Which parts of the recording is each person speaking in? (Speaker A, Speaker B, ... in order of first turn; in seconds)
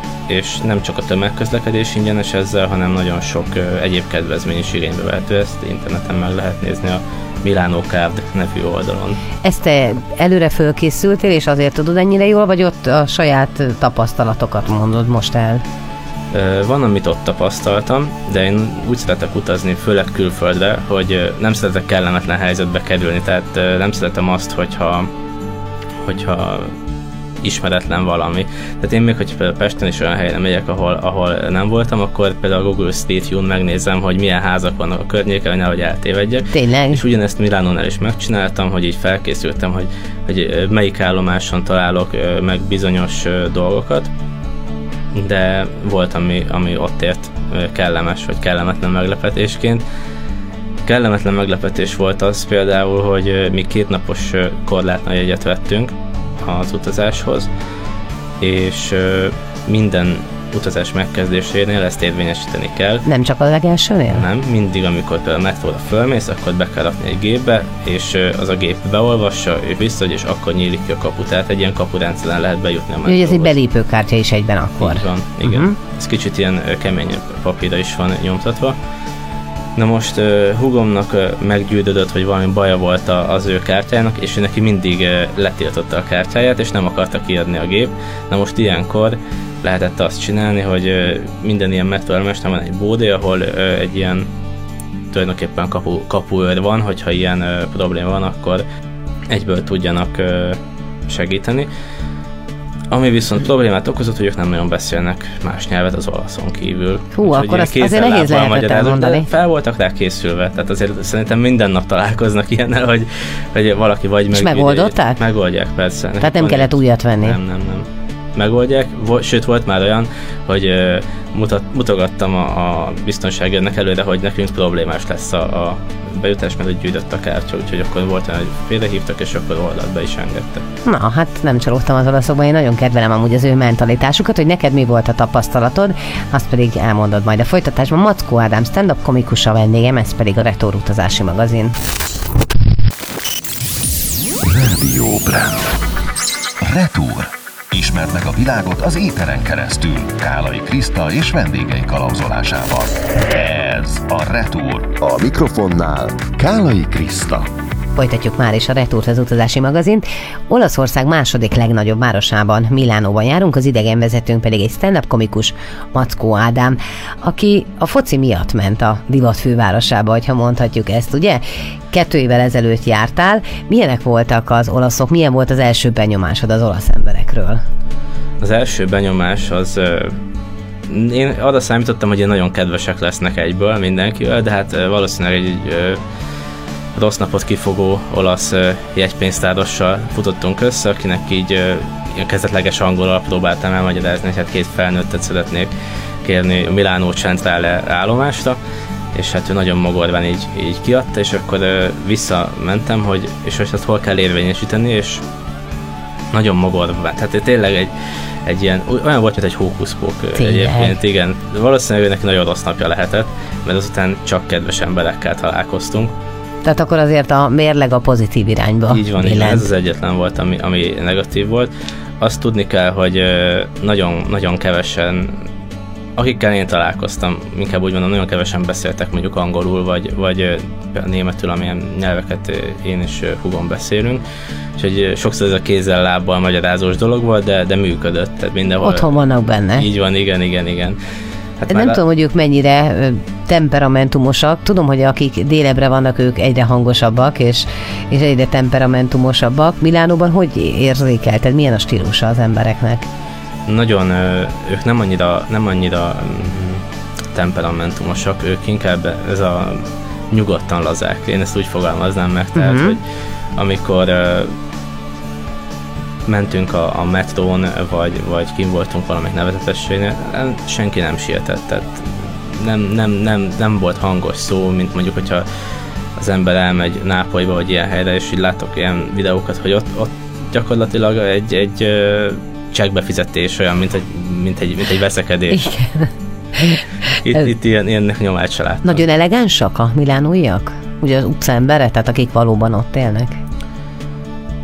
Speaker A: 0.3-9.2, 16.3-25.1, 26.0-26.7, 27.4-44.1, 45.1-49.8, 50.8-57.5, 58.4-63.0, 64.1-73.5, 74.8-78.8, 79.8-94.3, 95.1-98.6, 99.3-101.7, 102.9-130.6, 178.4-180.2, 180.9-186.0, 186.9-195.7, 196.2-198.6, 199.1-205.2, 206.3-207.9, 208.4-216.1, 218.9-225.4, 226.2-234.2, 234.8-241.0, 241.6-242.0, 253.7-263.0, 263.6-264.5, 266.2-275.4, 276.2-285.6, 287.1-289.0
Speaker B: 9.4-15.6, 36.5-37.0, 63.0-64.2, 73.0-75.7, 107.1-109.3, 114.3-115.2, 116.2-117.4, 130.8-141.7, 157.9-177.6, 210.3-211.0, 216.6-219.7, 238.8-239.8, 241.7-253.1, 262.6-263.0, 285.5-287.4, 288.8-293.4
Speaker C: 144.4-145.7, 146.6-157.5